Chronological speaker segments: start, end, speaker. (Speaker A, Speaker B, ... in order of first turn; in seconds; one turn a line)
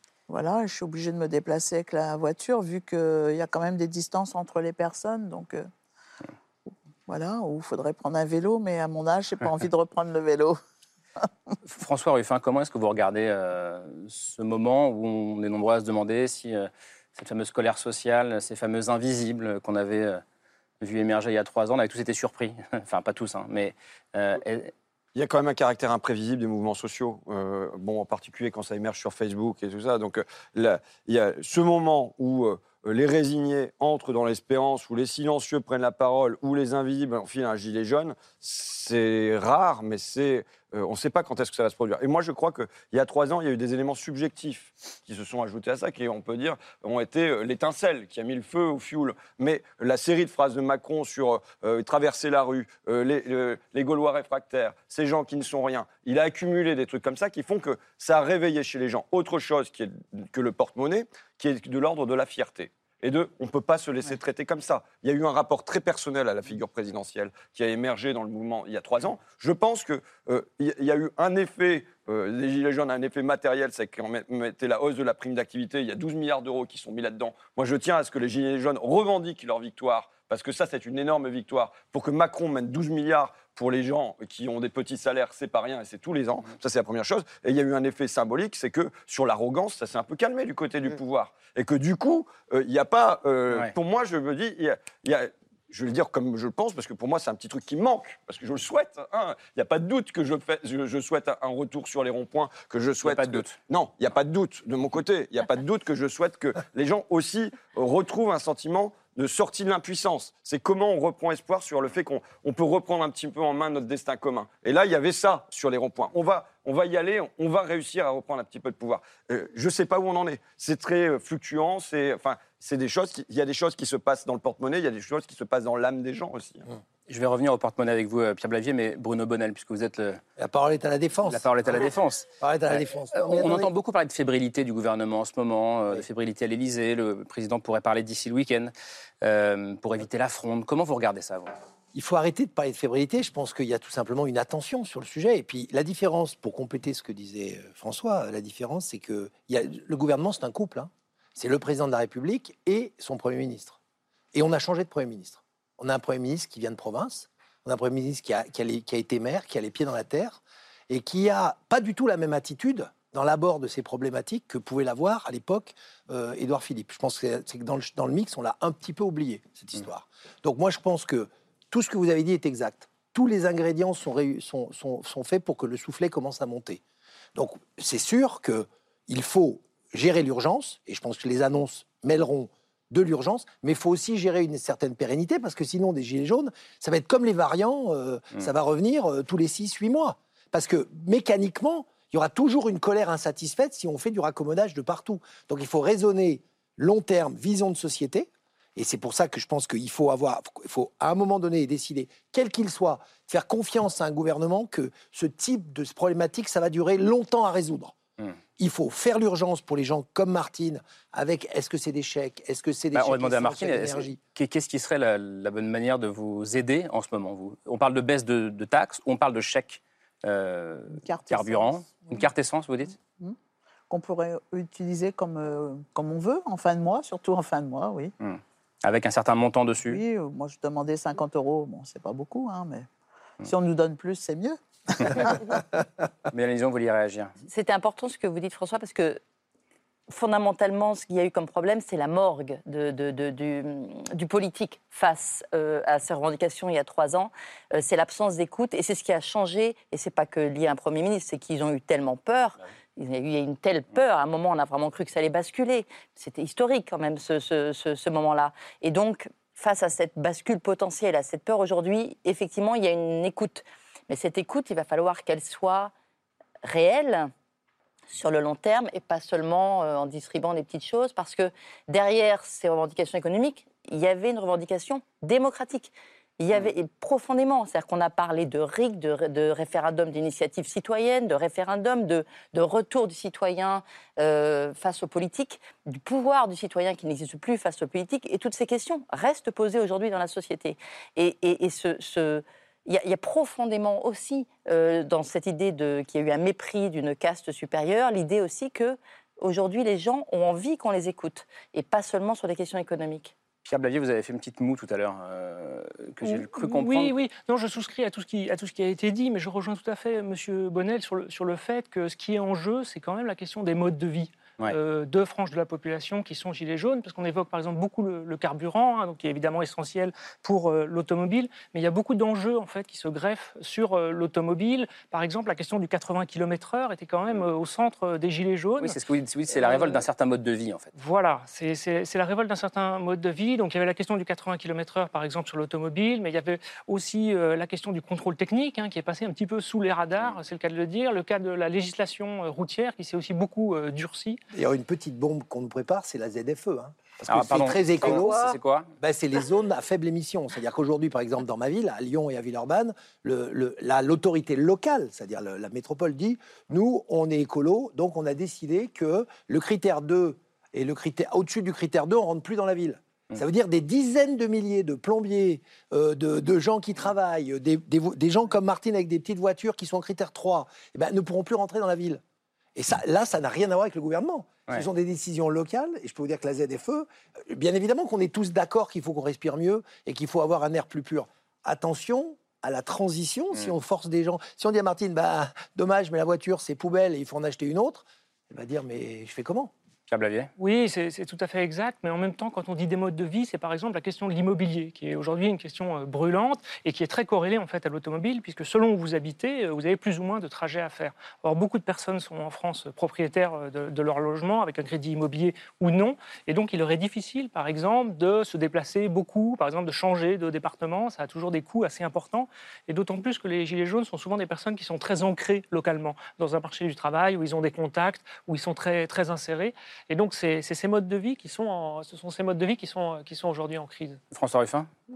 Speaker A: 0.3-5.7
Speaker A: 7.1-10.6
Speaker B: 11.6-20.2
Speaker B: 20.8-24.7
Speaker C: 25.1-126.6
Speaker B: 103.0-103.6
Speaker B: 127.1-130.2
Speaker D: 130.4-131.9
Speaker B: 131.3-141.5
Speaker D: 132.4-133.7
Speaker D: 141.9-153.8
Speaker D: 154.3-176.8
Speaker D: 177.3-207.9
Speaker D: 208.6-214.2
Speaker B: 212.9-223.0
Speaker A: 220.9-222.2
Speaker A: 223.9-228.1
Speaker B: 228.2-230.0
Speaker A: 229.9-232.9
Speaker A: 233.4-235.6
Speaker B: 236.3-237.3
Speaker E: 237.5-239.2
Speaker E: 240.1-265.9
Speaker E: 266.6-267.3
Speaker E: 268.1-303.3
Speaker B: 303.6-307.1
Speaker F: 306.2-329.0
Speaker B: 328.8-330.9
Speaker F: 329.5-330.0
Speaker F: 330.9-344.4
Speaker D: 344.5-372.2
Speaker B: 347.2-348.9
Speaker D: 372.8-389.7
Speaker B: 390.1-390.5
Speaker F: 390.6-424.2
Speaker B: 424.3-424.9